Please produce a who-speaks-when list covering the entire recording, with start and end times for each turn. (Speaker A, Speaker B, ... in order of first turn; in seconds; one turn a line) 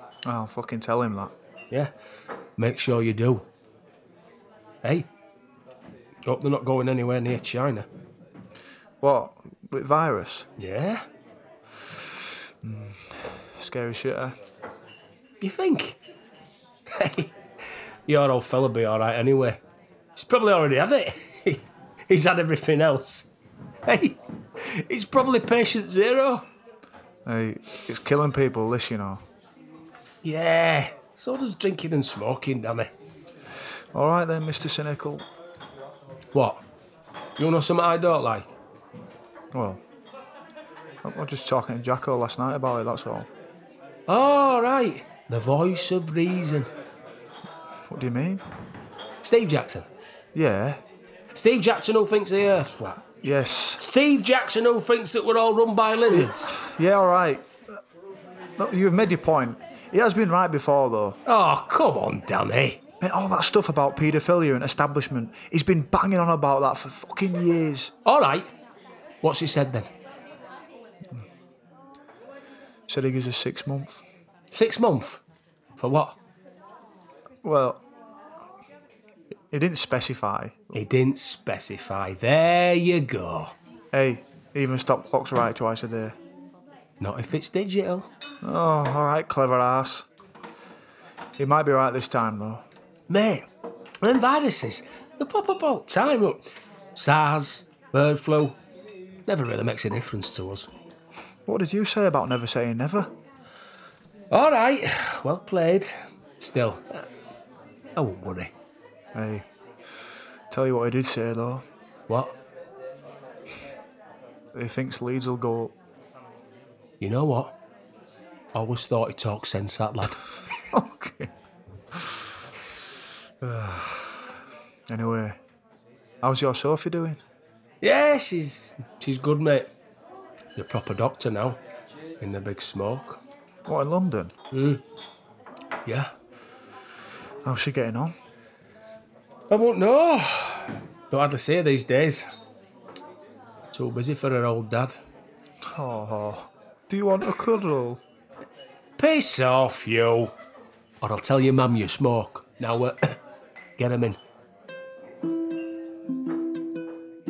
Speaker A: 0.2-1.3
Speaker B: 2.6-3.5
Speaker B: 4.8-5.1
Speaker B: 6.2-7.9
Speaker A: 9.0-10.4
Speaker B: 10.6-11.0
Speaker A: 12.6-14.3
Speaker B: 15.4-16.0
Speaker B: 16.9-17.3
Speaker B: 18.1-19.6
Speaker B: 20.1-23.3
Speaker B: 23.9-26.4
Speaker A: 27.2-29.2
Speaker B: 30.2-32.9
Speaker A: 33.9-35.3
Speaker B: 36.3-36.6
Speaker B: 37.4-38.5
Speaker A: 39.5-39.8
Speaker A: 41.0-43.3
Speaker B: 44.1-46.7
Speaker A: 47.9-48.4
Speaker B: 49.2-49.9
Speaker A: 50.3-50.8
Speaker B: 51.3-53.0
Speaker A: 53.2-53.8
Speaker B: 53.8-56.5
Speaker A: 56.2-57.5
Speaker A: 58.6-61.2
Speaker B: 61.2-62.8
Speaker A: 63.0-67.9
Speaker B: 68.0-68.5
Speaker B: 69.2-69.9
Speaker A: 72.9-74.0
Speaker B: 74.5-75.2
Speaker B: 75.8-76.2
Speaker A: 77.4-77.8
Speaker A: 79.5-80.8
Speaker B: 80.7-83.5
Speaker A: 83.9-86.1
Speaker B: 87.0-88.1
Speaker A: 88.4-90.0
Speaker A: 91.4-92.6
Speaker B: 93.1-93.5
Speaker B: 94.0-98.6
Speaker B: 99.3-100.7
Speaker A: 101.5-103.1
Speaker B: 104.3-107.1
Speaker B: 108.0-108.5
Speaker A: 109.1-109.5
Speaker A: 110.5-111.6
Speaker B: 112.1-112.4
Speaker A: 114.5-115.7
Speaker B: 117.0-117.5
Speaker B: 118.5-120.2
Speaker A: 120.7-121.3
Speaker A: 123.4-124.2
Speaker A: 124.9-125.4
Speaker A: 126.2-127.2
Speaker B: 127.8-129.7
Speaker B: 130.6-131.6
Speaker B: 132.2-133.2
Speaker A: 133.7-134.3
Speaker B: 134.5-134.8
Speaker B: 135.8-136.1
Speaker A: 137.4-138.1
Speaker B: 139.5-142.2
Speaker B: 143.7-145.0
Speaker A: 145.6-148.0
Speaker B: 149.0-150.3
Speaker B: 151.0-153.2
Speaker B: 153.8-154.2